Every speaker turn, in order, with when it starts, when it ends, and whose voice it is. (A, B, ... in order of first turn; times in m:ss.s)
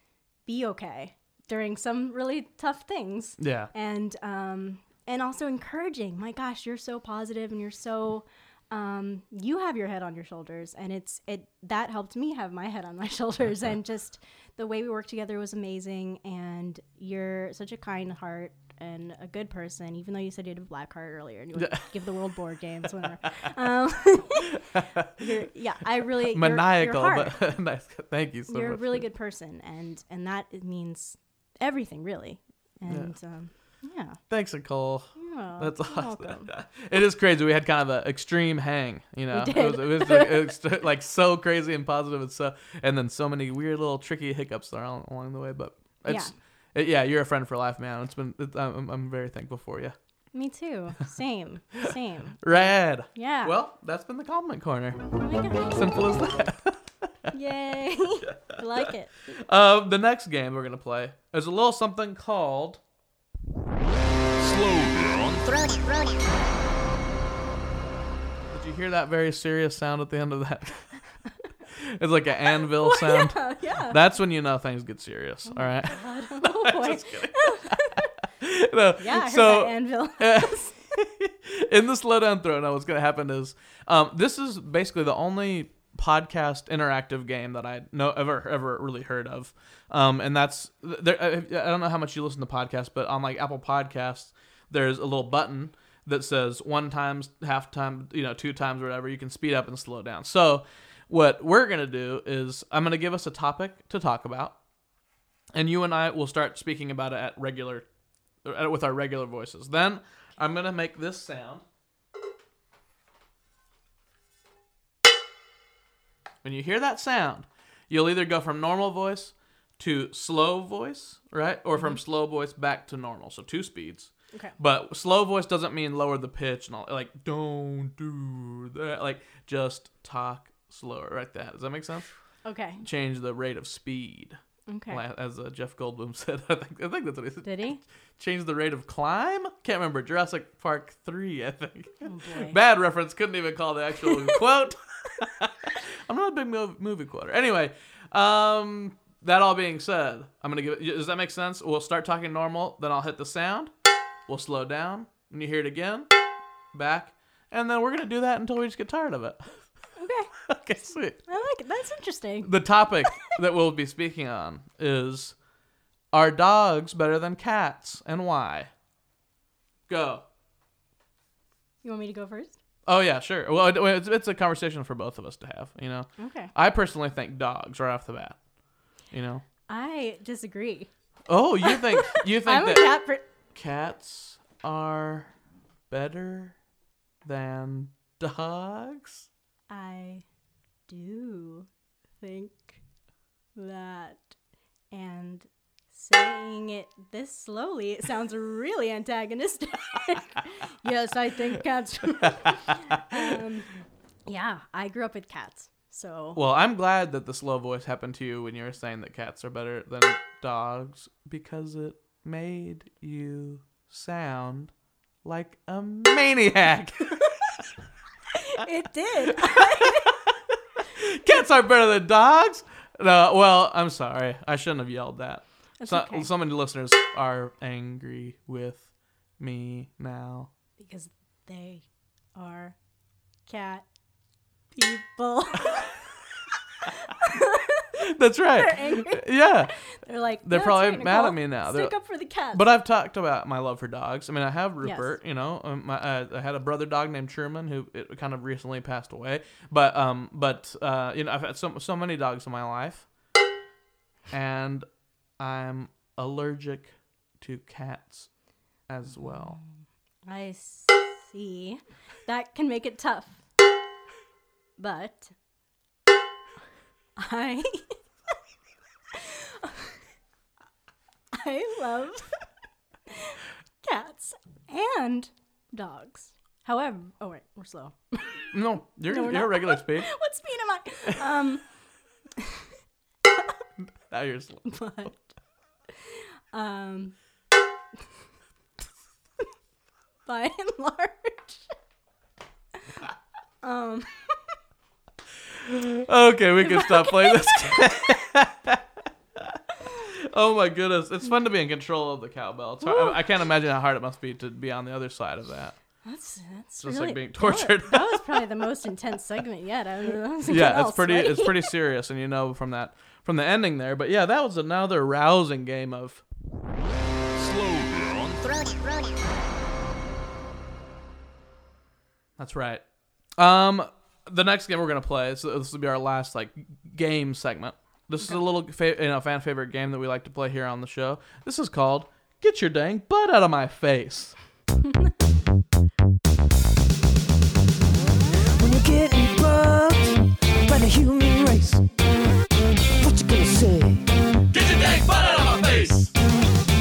0:00.4-0:27.3 A
0:03.4-0:03.7 B
0:21.6-0:22.0 B
0:24.7-0:25.1 B
0:26.3-0:29.0 B
0:28.5-0:34.2 A
0:32.9-0:33.2 B
0:34.3-0:50.0 B
0:35.2-0:36.5 A
0:39.3-0:40.6 A
0:46.0-0:46.3 A
0:50.3-0:52.4 A
0:52.4-0:55.0 B
0:53.1-0:53.6 A
0:55.2-0:55.8 A
0:55.7-0:57.3 B
0:57.3-0:59.1 A
0:58.5-1:02.8 B
1:08.5-1:11.1 B
1:11.8-1:44.6 B
1:12.6-1:14.0 A
1:15.5-1:18.1 A
1:19.0-1:20.8 A
1:45.5-1:47.9 B
1:48.4-1:51.6 B
1:56.4-2:12.1 B
2:12.4-2:12.8 A
2:12.8-2:33.7 B
2:14.7-2:15.0 A
2:17.4-2:17.8 A
2:22.0-2:22.6 A
2:34.3-2:36.1 B
2:36.7-2:39.7 B
2:40.0-2:40.3 A
2:40.4-2:41.2 B
2:41.3-2:42.5 A
2:42.4-2:45.4 B
2:46.1-2:48.7 B
2:49.9-2:50.2 B
2:51.8-2:52.6 A
2:52.9-2:58.4 B
2:56.2-2:56.5 A
2:59.1-2:59.4 B
2:59.7-3:00.9 A
3:01.3-3:03.0 B
3:01.6-3:03.2 A
3:03.5-3:05.3 B
3:05.9-3:06.6 B
3:07.2-3:09.3 B
3:09.7-3:10.2 A
3:10.9-3:11.7 A
3:12.2-3:12.8 A
3:13.6-3:14.3 A
3:14.9-3:23.7 A
3:22.2-3:23.4 B
3:24.3-3:26.4 A
3:26.3-3:34.7 B
3:35.2-3:37.6 B
3:38.3-3:40.2 A
3:39.5-3:40.0 B
3:40.5-3:50.5 B
3:45.8-3:46.3 A
3:50.8-3:52.8 A
3:53.4-3:53.9 A
3:54.7-3:55.9 A
3:57.1-3:57.9 A
3:58.0-3:59.7 B
3:58.6-4:02.6 A
4:00.4-4:02.0 B
4:02.5-4:13.1 B
4:04.8-4:05.1 A
4:14.3-4:14.9 B
4:15.4-4:18.3 B
4:18.9-4:19.6 B
4:20.3-4:23.4 A
4:24.8-4:25.3 A
4:27.2-4:28.0 A
4:29.1-4:30.0 A
4:31.3-4:32.4 A
4:33.1-4:38.5 A
4:38.5-4:40.1 B
4:39.1-4:41.7 A
4:42.4-4:42.6 A
4:43.8-4:44.6 B
4:44.6-4:45.3 A
4:46.1-4:47.2 A
4:50.3-4:51.7 A
4:53.6-4:54.6 A
4:55.6-4:58.8 B
4:56.6-4:57.8 A
5:00.1-5:05.8 B
5:02.8-5:03.2 A
5:06.0-5:11.7 A
5:06.8-5:08.5 B
5:10.5-5:16.2 B
5:22.4-5:22.8 B
5:23.4-5:34.4 B
5:38.4-5:41.9 C
5:43.0-5:44.1 C
5:44.5-5:46.0 B